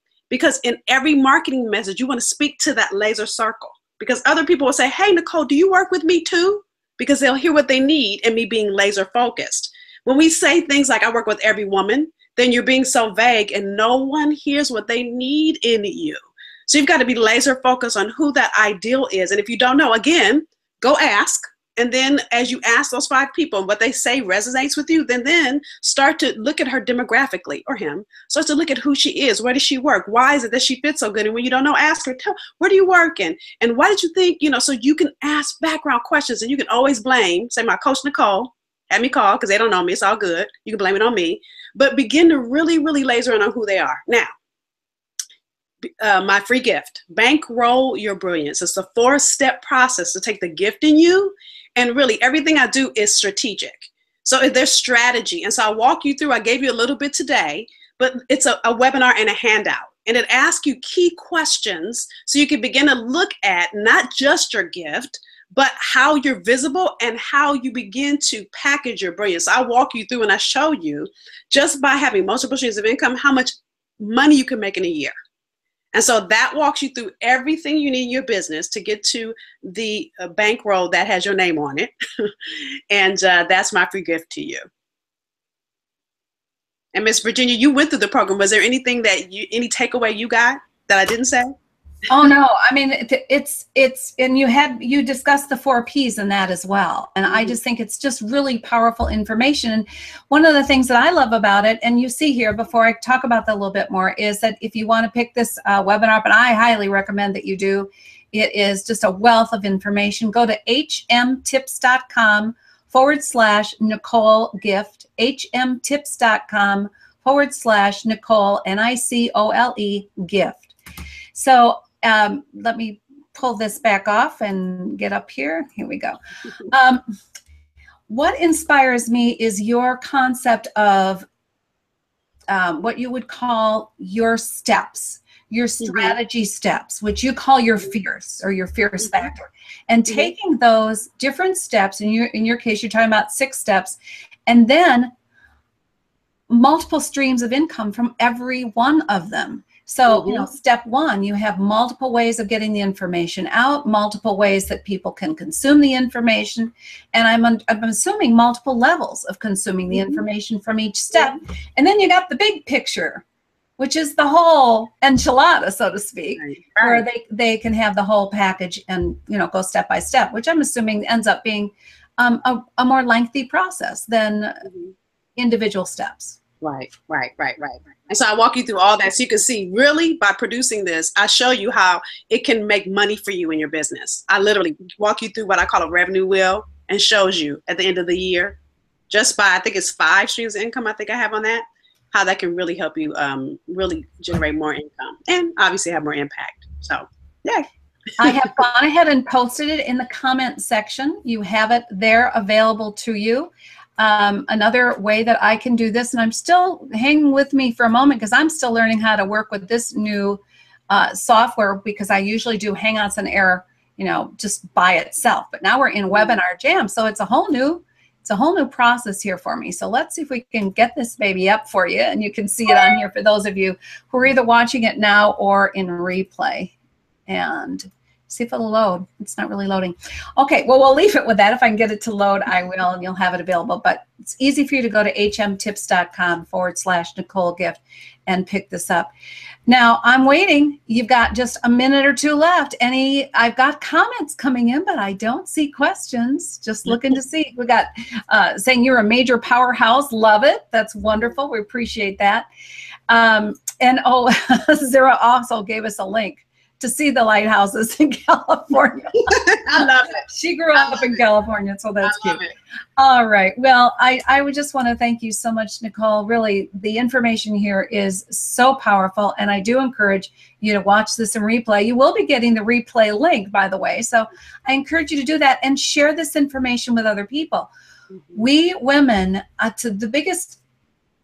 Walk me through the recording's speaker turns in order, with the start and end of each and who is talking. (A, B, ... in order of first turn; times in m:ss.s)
0:00.3-0:44.3 A
0:46.0-1:15.1 A
1:15.9-1:24.6 A
1:26.9-1:31.5 A
1:32.1-2:00.8 B
1:37.3-1:37.6 A
2:01.3-2:07.0 B
2:08.1-2:11.3 B
2:12.5-2:25.1 B
2:15.8-2:16.2 A
2:26.5-2:43.2 B
2:30.1-2:30.5 A
2:39.9-2:40.2 A
2:43.8-2:54.7 B
2:46.4-2:47.0 A
2:55.4-2:56.4 B
2:56.6-3:08.6 A
3:09.1-3:17.7 A
3:18.2-3:46.7 B
3:47.3-3:59.1 B
3:59.7-4:12.5 B
4:13.1-4:22.4 B
4:19.3-4:20.2 A
4:20.8-4:21.1 A
4:22.0-4:22.5 A
4:23.0-4:37.7 B
4:38.4-4:40.6 B